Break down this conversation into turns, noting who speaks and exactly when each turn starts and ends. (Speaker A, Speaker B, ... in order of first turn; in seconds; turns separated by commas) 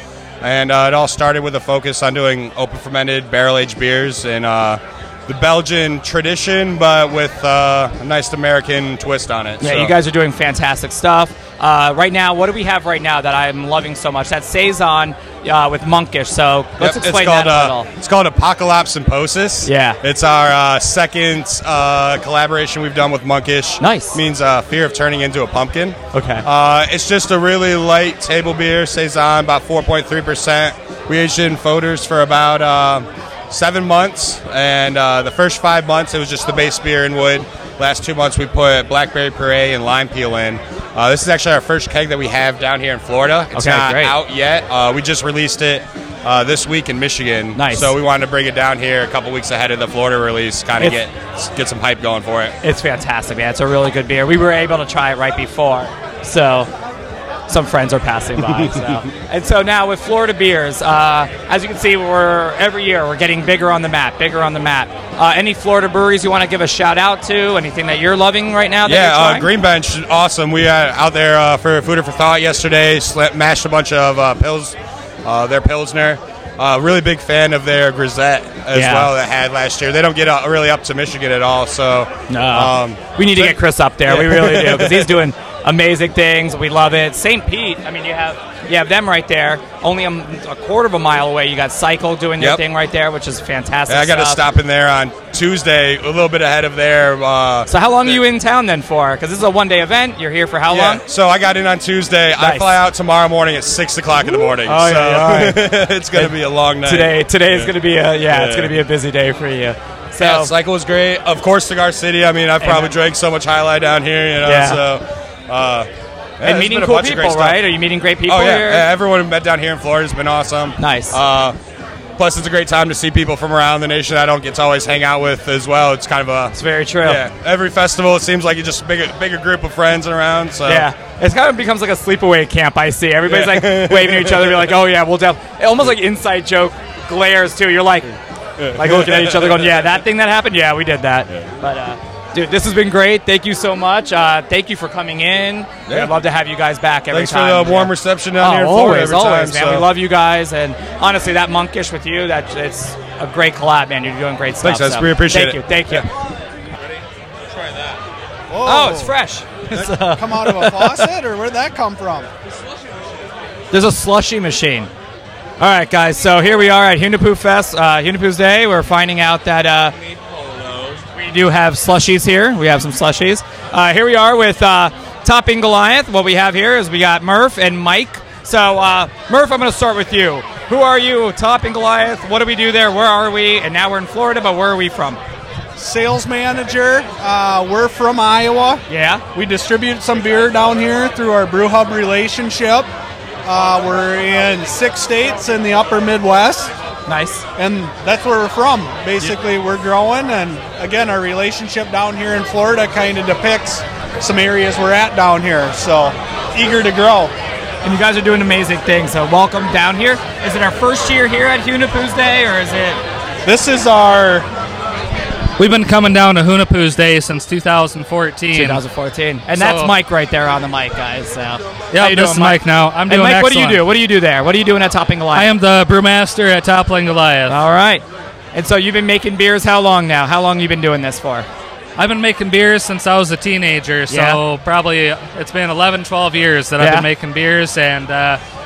Speaker A: 0.4-9.9, Speaker B: 9.6-17.9, Speaker A: 16.8-52.5, Speaker B: 19.6-20.0, Speaker B: 23.8-24.2, Speaker B: 26.1-26.4, Speaker B: 43.5-44.1, Speaker B: 47.5-47.9, Speaker B: 52.6-56.7, Speaker B: 57.5-69.5, Speaker A: 68.8-85.2, Speaker B: 78.7-79.1, Speaker B: 82.3-94.4, Speaker A: 93.9-98.2, Speaker B: 97.7-101.0, Speaker A: 100.7-108.8, Speaker B: 102.4-102.8, Speaker B: 104.2-110.5, Speaker A: 110.2-115.9, Speaker B: 112.6-112.9, Speaker B: 114.4-114.8, Speaker A: 116.4-117.6, Speaker B: 116.4-118.8, Speaker A: 118.3-121.5, Speaker B: 120.8-121.2, Speaker A: 122.2-130.9, Speaker B: 126.5-127.2, Speaker B: 130.7-138.1, Speaker A: 133.2-134.7, Speaker A: 138.6-139.8, Speaker B: 138.7-156.1, Speaker A: 145.9-146.2, Speaker A: 147.1-149.9, Speaker A: 154.6-156.0, Speaker C: 158.5-159.1, Speaker B: 158.6-161.1, Speaker C: 159.7-162.3, Speaker B: 163.7-164.9, Speaker B: 165.6-169.9, Speaker B: 171.1-185.2, Speaker C: 185.8-192.9, Speaker B: 188.9-189.2, Speaker C: 193.4-196.7, Speaker B: 197.1-197.4, Speaker C: 197.6-207.3, Speaker B: 207.8-213.0, Speaker C: 213.4-214.5, Speaker D: 215.6-218.8, Speaker B: 218.5-225.5, Speaker D: 219.5-219.9, Speaker D: 221.9-223.8, Speaker D: 225.3-227.6, Speaker B: 227.5-231.5, Speaker D: 232.0-238.4, Speaker B: 234.1-234.4, Speaker B: 236.8-237.1